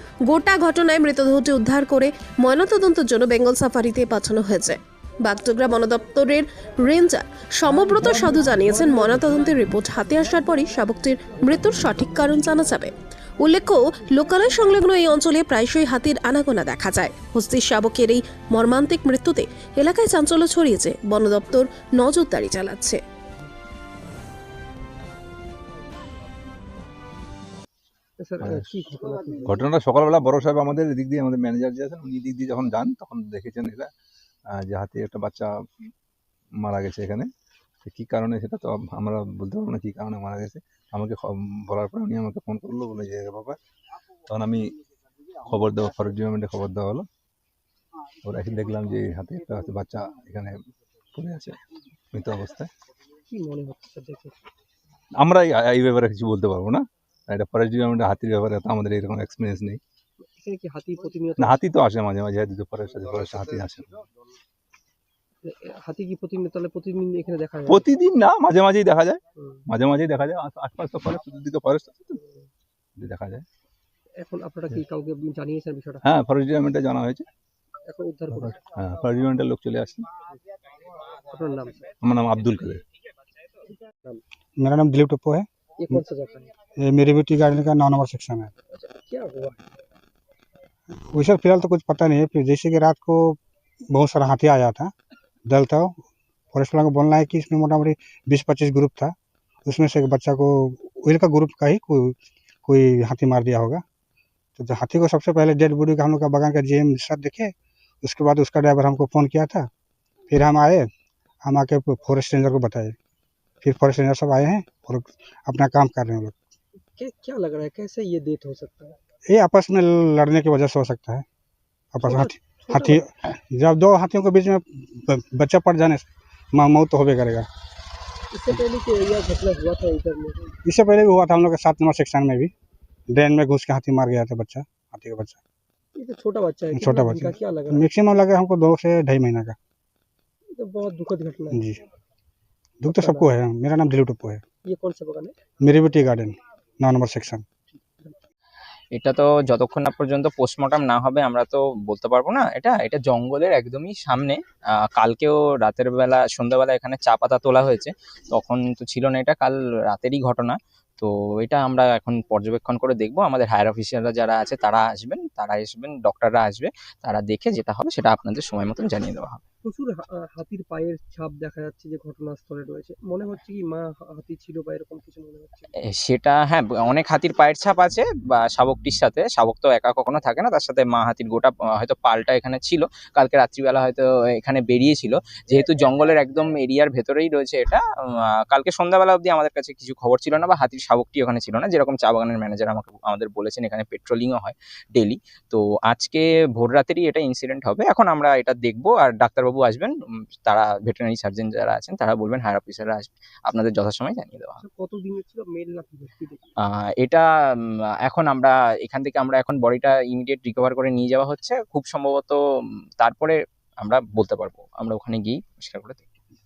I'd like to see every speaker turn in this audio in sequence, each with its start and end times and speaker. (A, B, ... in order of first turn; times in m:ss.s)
0:00.3-0:23.0 A
0:28.2-0:29.6 B
0:29.5-0:33.9 C
0:34.6-0:35.5 C
0:36.6-0:37.3 C
0:37.8-0:43.6 C
0:44.3-0:44.7 C
0:45.4-0:47.1 C
0:48.2-0:50.6 C
0:51.2-0:51.6 C
0:52.1-0:52.7 C
0:53.3-0:54.4 B
0:55.2-0:59.8 C
1:00.2-1:01.6 B
1:01.6-1:03.9 C
1:05.4-1:07.9 B
1:07.7-1:12.2 C
1:09.4-1:09.6 B
1:13.0-1:13.4 C
1:14.2-1:16.1 B
1:16.1-1:17.2 C
1:17.9-1:18.6 B
1:18.5-1:20.1 C
1:21.2-1:21.9 B
1:22.0-1:22.8 C
1:24.6-1:25.5 D
1:25.8-1:26.5 B
1:26.8-1:28.5 D
1:28.7-1:29.6 B
1:31.0-1:33.4 D
1:33.9-1:34.9 D
1:35.5-1:36.0 D
1:36.5-1:39.1 D
1:39.7-1:43.8 D
1:44.6-1:49.7 D
1:50.3-1:50.9 D
1:51.4-1:53.0 D
1:53.6-1:56.4 D
1:57.0-1:59.0 B
1:59.3-2:01.2 D
2:01.9-2:07.5 D
2:02.0-2:03.0 B
2:08.3-2:10.5 B
2:10.7-2:12.5 D
2:13.1-2:15.4 D
2:16.0-2:17.8 B
2:16.7-2:19.6 D
2:20.5-2:21.6 B
2:21.5-2:21.8 D
2:22.8-2:24.4 D
2:22.8-2:23.3 B
2:24.6-2:25.4 B
2:25.6-2:27.4 D
2:28.9-2:34.4 E
2:34.9-2:49.4 E
2:49.6-2:55.7 B
2:55.9-3:07.8 E
3:08.4-3:19.9 E
3:20.5-3:24.6 E
3:24.6-3:26.5 B
3:26.7-3:27.2 E
3:28.1-3:32.4 E
3:33.0-3:36.0 E